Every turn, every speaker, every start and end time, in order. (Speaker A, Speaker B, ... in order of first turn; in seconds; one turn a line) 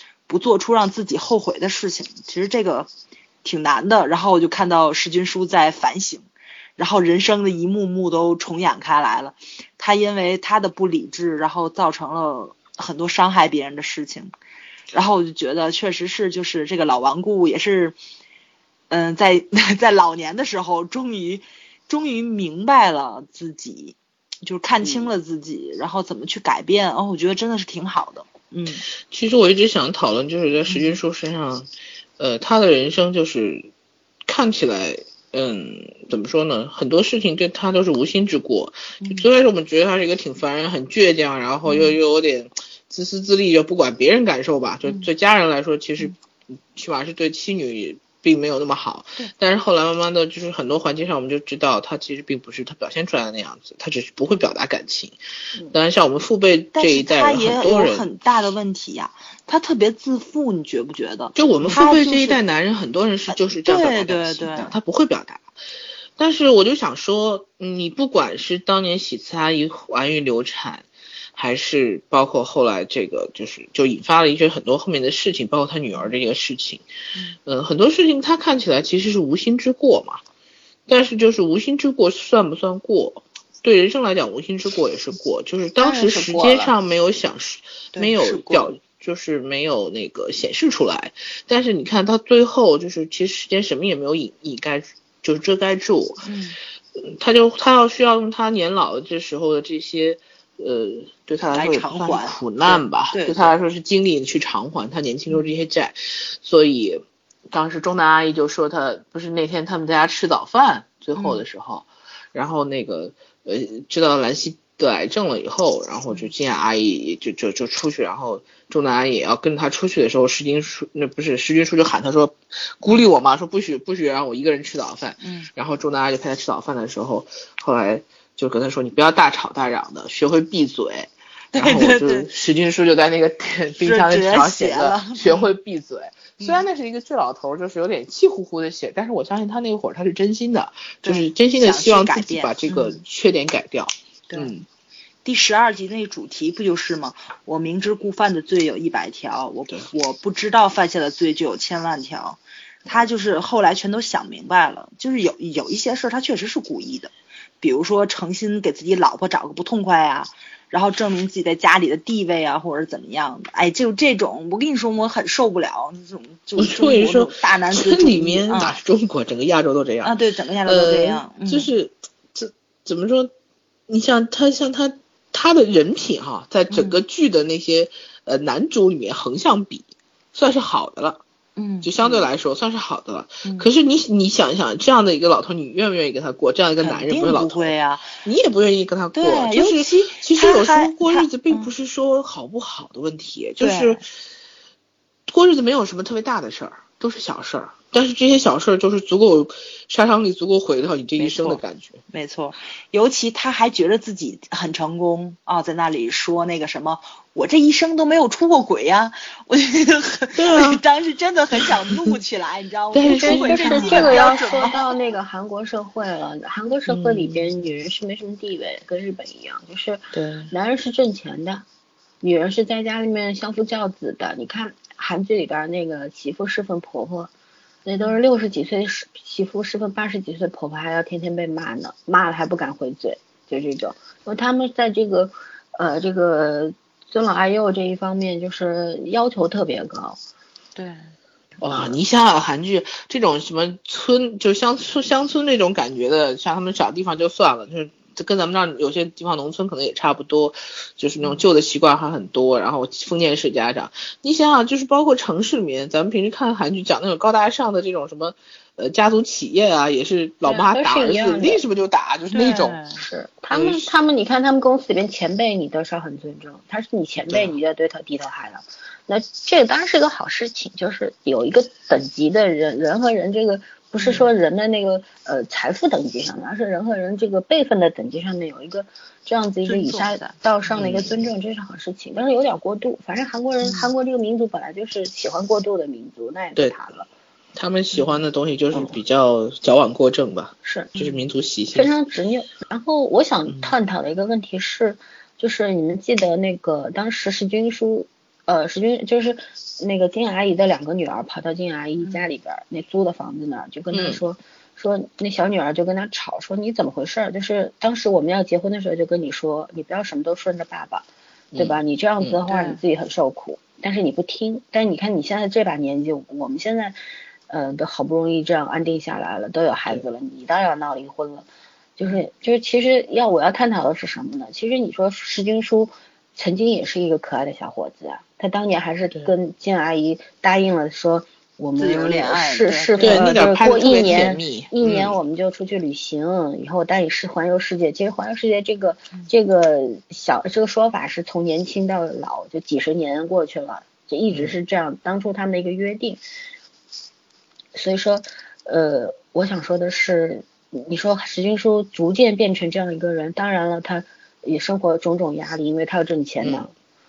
Speaker A: 0.3-2.9
Speaker A: 3.4-14.3
Speaker A: 14.9-18.0
Speaker A: 18.9-28.9
Speaker B: 29.1-31.7
Speaker A: 30.7-31.0
Speaker B: 32.2-33.7
Speaker B: 34.3-46.1
Speaker A: 39.0-39.3
Speaker A: 41.6-42.0
Speaker B: 46.7-55.2
Speaker B: 55.7-58.1
Speaker A: 56.8-62.4
Speaker B: 61.4-65.5
Speaker A: 63.5-64.7
Speaker B: 66.2-76.8
Speaker B: 77.5-80.2
Speaker B: 80.9-96.2
Speaker C: 85.8-86.7
Speaker A: 87.9-88.7
Speaker A: 96.2-96.6
Speaker B: 97.0-144.7
Speaker A: 101.5-103.5
Speaker A: 111.2-111.4
Speaker A: 125.2-125.5
Speaker A: 131.5-132.3
Speaker A: 133.8-135.5
Speaker A: 136.4-136.7
Speaker A: 141.0-143.0
Speaker A: 145.2-168.8
Speaker B: 166.6-170.1
Speaker A: 170.0-171.7
Speaker B: 170.7-173.3
Speaker B: 173.9-181.2
Speaker A: 176.7-177.0
Speaker A: 181.6-182.3
Speaker B: 181.8-187.7
Speaker A: 183.4-183.7
Speaker A: 186.8-188.1
Speaker B: 188.2-194.1
Speaker A: 189.2-191.7
Speaker A: 193.6-194.0
Speaker B: 195.3-202.0
Speaker A: 201.2-214.9
Speaker B: 210.4-210.8
Speaker B: 211.7-212.1
Speaker B: 212.9-214.7
Speaker C: 213.1-221.7
Speaker B: 216.9-217.5
Speaker C: 222.2-227.3
Speaker C: 227.9-240.2
Speaker A: 240.8-241.1
Speaker B: 241.6-262.8
Speaker C: 260.4-261.6
Speaker A: 262.3-263.0
Speaker C: 262.9-287.1
Speaker B: 263.5-263.9
Speaker B: 267.3-267.5
Speaker A: 274.0-274.3
Speaker A: 279.6-280.4
Speaker B: 280.7-281.3
Speaker A: 283.6-283.9
Speaker B: 287.6-291.9
Speaker A: 287.9-288.2
Speaker C: 290.6-290.9
Speaker C: 291.7-317.0
Speaker B: 293.5-293.7
Speaker A: 302.0-302.3
Speaker B: 303.9-304.2
Speaker B: 311.5-312.4
Speaker A: 312.5-312.8
Speaker C: 317.5-321.5
Speaker C: 322.0-346.2
Speaker A: 331.8-333.4
Speaker B: 333.0-335.2
Speaker C: 347.7-356.7
Speaker B: 356.4-356.7